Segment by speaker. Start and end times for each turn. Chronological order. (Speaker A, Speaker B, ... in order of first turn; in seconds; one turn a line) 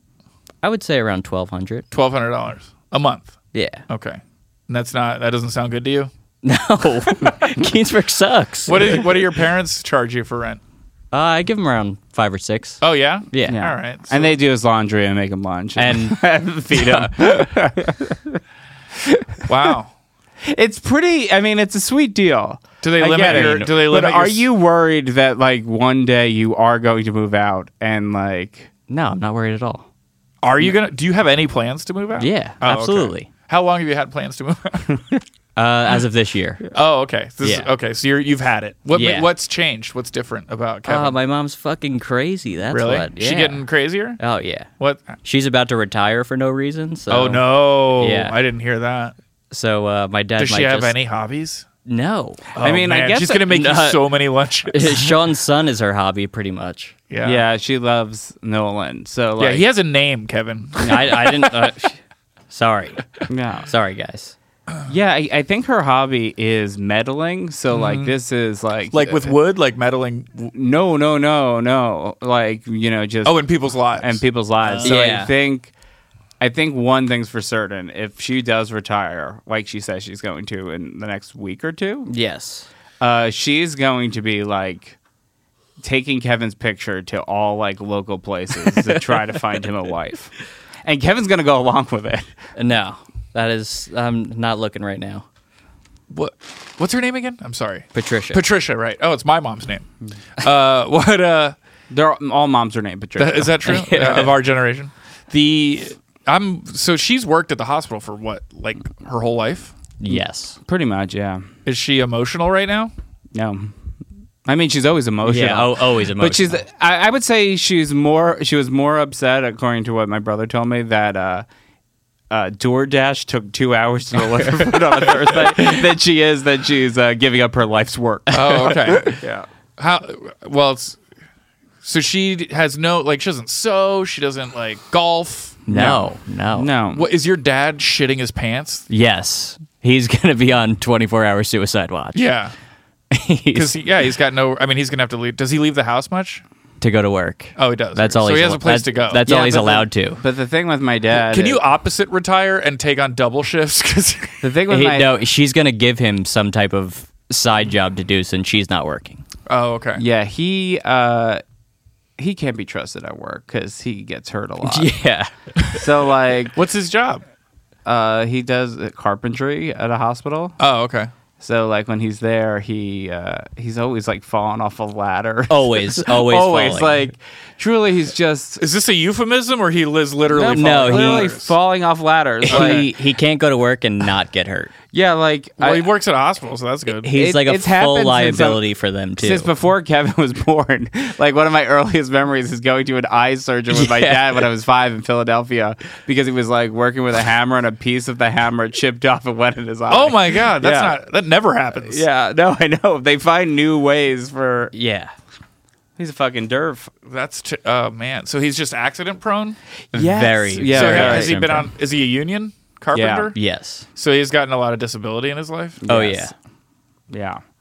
Speaker A: 0.6-1.8
Speaker B: 1.9-3.4
Speaker A: 3.5-3.8
Speaker B: 3.9-6.1
Speaker A: 6.4-9.0
Speaker B: 8.7-10.6
Speaker A: 11.1-12.8
Speaker B: 12.8-14.3
Speaker A: 13.3-13.6
Speaker C: 13.4-18.4
Speaker A: 15.8-17.1
Speaker C: 19.0-19.4
Speaker B: 19.5-19.9
Speaker C: 20.4-28.7
Speaker B: 22.8-24.4
Speaker A: 23.1-23.7
Speaker A: 28.9-29.9
Speaker B: 30.4-35.0
Speaker A: 32.2-33.3
Speaker A: 35.5-36.6
Speaker B: 36.7-41.2
Speaker A: 37.4-37.7
Speaker A: 38.9-39.3
Speaker A: 40.9-43.6
Speaker B: 42.7-44.2
Speaker A: 44.2-44.7
Speaker B: 44.8-45.2
Speaker A: 45.2-48.3
Speaker B: 47.1-49.1
Speaker A: 49.5-50.9
Speaker B: 50.4-51.7
Speaker A: 51.8-52.5
Speaker B: 52.5-55.1
Speaker C: 52.6-53.5
Speaker A: 53.5-54.1
Speaker A: 54.7-56.9
Speaker B: 57.1-57.4
Speaker C: 57.2-59.6
Speaker B: 59.4-61.5
Speaker A: 60.8-63.1
Speaker C: 63.3-63.7
Speaker A: 63.6-64.3
Speaker C: 64.9-69.3
Speaker B: 67.7-68.1
Speaker B: 68.9-70.5
Speaker C: 70.5-75.7
Speaker B: 73.2-74.9
Speaker A: 74.8-75.3
Speaker C: 76.4-82.1
Speaker A: 82.1-82.7
Speaker C: 83.0-85.0
Speaker C: 85.8-90.3
Speaker C: 90.8-92.3
Speaker A: 92.5-95.2
Speaker B: 96.1-99.8
Speaker A: 97.9-98.4
Speaker B: 100.4-101.5
Speaker C: 101.9-103.5
Speaker B: 103.2-109.8
Speaker A: 103.6-104.3
Speaker A: 110.0-110.6
Speaker C: 110.6-111.5
Speaker B: 111.7-112.9
Speaker C: 113.3-113.7
Speaker C: 114.5-121.5
Speaker A: 115.2-116.6
Speaker C: 122.3-129.5
Speaker B: 128.3-129.2
Speaker B: 129.8-131.0
Speaker B: 131.8-136.0
Speaker A: 135.7-136.7
Speaker C: 136.5-137.0
Speaker B: 136.9-138.9
Speaker A: 138.9-142.3
Speaker B: 142.1-142.5
Speaker A: 143.1-143.7
Speaker B: 143.5-146.4
Speaker A: 146.8-150.2
Speaker B: 147.6-149.2
Speaker C: 149.2-151.6
Speaker B: 151.1-154.4
Speaker C: 154.4-155.2
Speaker A: 154.7-159.2
Speaker B: 159.5-160.0
Speaker C: 159.9-161.4
Speaker C: 162.2-164.9
Speaker A: 164.6-165.3
Speaker C: 165.7-166.6
Speaker B: 166.5-167.2
Speaker C: 167.8-170.6
Speaker B: 170.6-171.1
Speaker C: 171.4-178.6
Speaker A: 175.5-177.0
Speaker B: 178.6-181.5
Speaker C: 180.3-182.9
Speaker A: 180.5-181.3
Speaker A: 182.5-184.7
Speaker B: 182.5-182.9
Speaker C: 184.9-185.8
Speaker B: 185.6-187.1
Speaker A: 187.0-189.5
Speaker C: 187.1-188.6
Speaker C: 189.2-200.9
Speaker A: 193.7-194.4
Speaker B: 199.9-202.0
Speaker C: 201.7-204.7
Speaker A: 204.7-205.1
Speaker C: 206.0-206.9
Speaker B: 207.1-209.6
Speaker C: 209.9-211.6
Speaker A: 209.9-211.7
Speaker B: 210.6-213.4
Speaker C: 212.9-213.3
Speaker A: 213.3-213.9
Speaker B: 213.9-215.8
Speaker C: 215.8-216.3
Speaker A: 215.9-216.3
Speaker C: 217.1-217.4